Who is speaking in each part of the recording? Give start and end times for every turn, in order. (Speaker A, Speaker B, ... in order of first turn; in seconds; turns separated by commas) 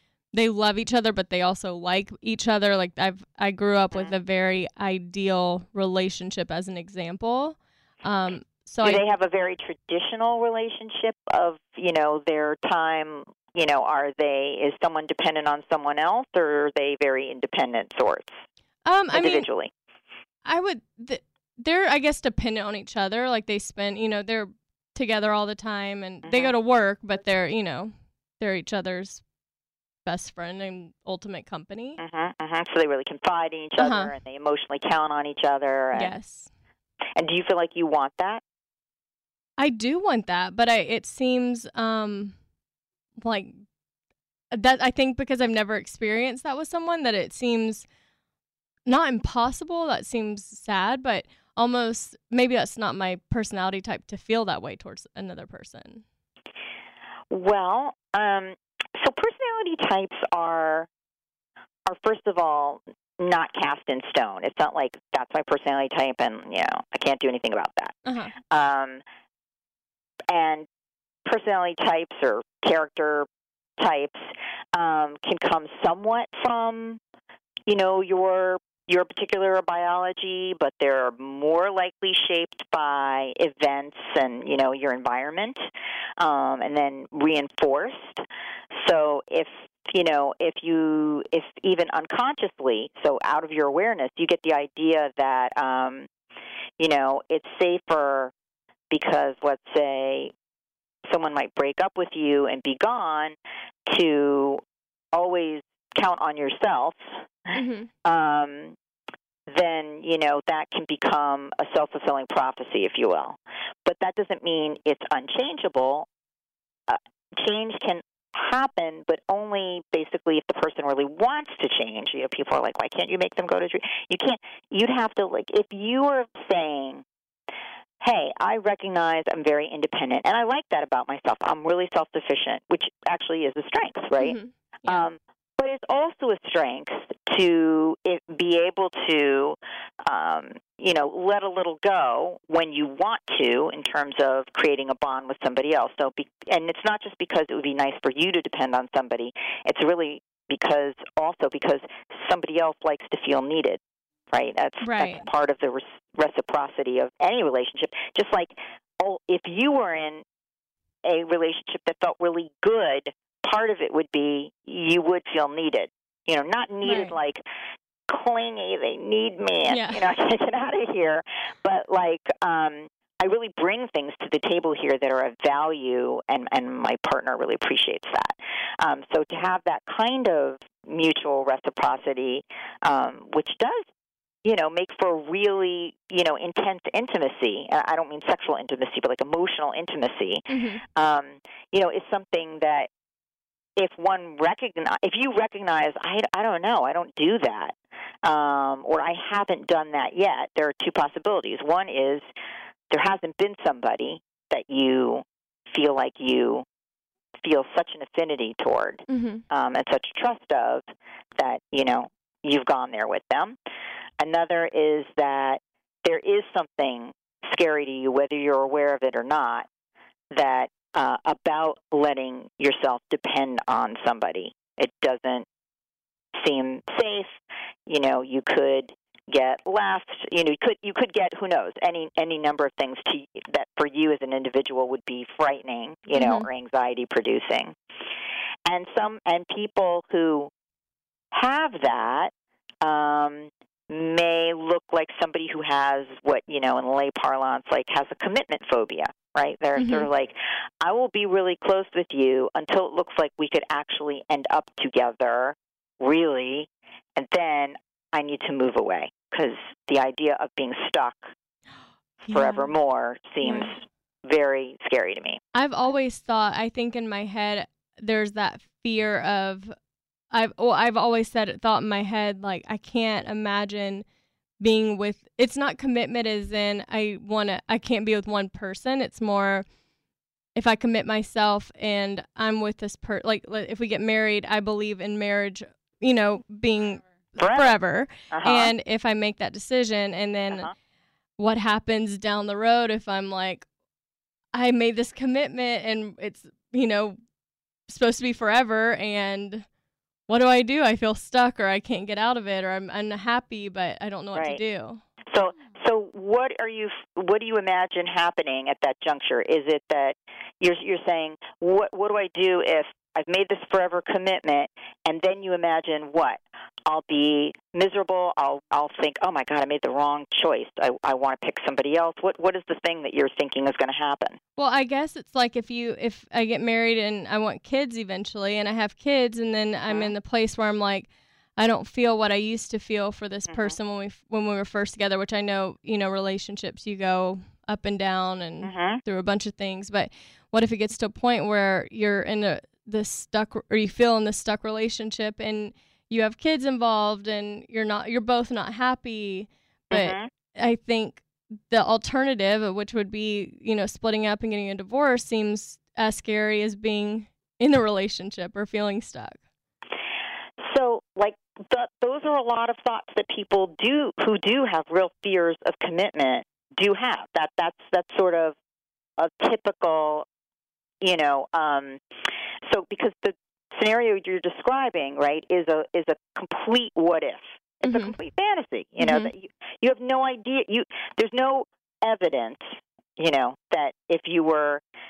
Speaker A: 0.3-9.0, Speaker B: 8.8-18.3, Speaker A: 18.9-19.5, Speaker B: 19.1-19.7, Speaker A: 20.4-29.2, Speaker B: 26.2-26.5, Speaker A: 30.1-32.0, Speaker B: 32.0-36.1, Speaker A: 33.8-34.1, Speaker A: 35.9-36.5, Speaker B: 37.2-38.4, Speaker A: 39.6-42.4, Speaker A: 43.2-43.6, Speaker A: 44.5-47.9, Speaker A: 48.9-56.0, Speaker B: 57.3-60.9, Speaker B: 61.9-68.0, Speaker A: 68.1-68.3, Speaker B: 68.5-69.0, Speaker B: 70.3-70.7, Speaker B: 71.3-73.3, Speaker B: 73.8-77.0, Speaker B: 77.7-85.6, Speaker B: 86.2-88.2, Speaker B: 88.8-96.1, Speaker B: 96.8-98.3, Speaker B: 98.9-100.3, Speaker B: 101.1-103.4, Speaker B: 103.9-104.6, Speaker B: 105.1-107.0, Speaker A: 107.5-107.9, Speaker B: 108.0-108.8, Speaker B: 109.5-116.1, Speaker B: 116.9-127.0, Speaker B: 128.0-153.8, Speaker A: 134.2-135.1, Speaker B: 154.3-160.2, Speaker A: 154.8-155.3, Speaker B: 161.0-167.4, Speaker A: 166.8-167.2, Speaker B: 168.1-183.9, Speaker A: 169.7-170.1, Speaker B: 184.4-192.9, Speaker A: 190.5-190.8, Speaker B: 193.8-202.3, Speaker B: 202.9-206.7, Speaker B: 207.4-210.8, Speaker A: 209.1-209.4, Speaker B: 211.4-213.6, Speaker B: 214.2-219.7, Speaker B: 220.3-225.5, Speaker B: 226.4-227.3, Speaker B: 227.9-237.8, Speaker A: 236.2-236.5, Speaker B: 238.7-240.5, Speaker B: 241.3-242.3, Speaker B: 242.8-261.3, Speaker A: 249.8-250.1, Speaker B: 262.3-265.4, Speaker A: 262.3-262.7, Speaker A: 263.4-263.7, Speaker A: 265.5-269.8, Speaker A: 270.3-274.1, Speaker A: 274.6-279.7, Speaker A: 280.6-290.7, Speaker B: 287.4-287.8, Speaker B: 288.3-288.7, Speaker A: 291.4-293.7, Speaker A: 294.5-297.2, Speaker A: 297.9-299.7, Speaker A: 300.3-305.0, Speaker B: 304.3-304.6, Speaker B: 305.3-324.4, Speaker A: 324.6-359.4, Speaker B: 329.9-330.1, Speaker B: 333.5-333.8, Speaker B: 338.6-339.0, Speaker B: 349.9-350.3, Speaker B: 360.6-368.6, Speaker B: 369.2-370.2, Speaker B: 371.0-372.0, Speaker B: 372.7-384.8, Speaker A: 377.8-378.2, Speaker A: 379.0-379.3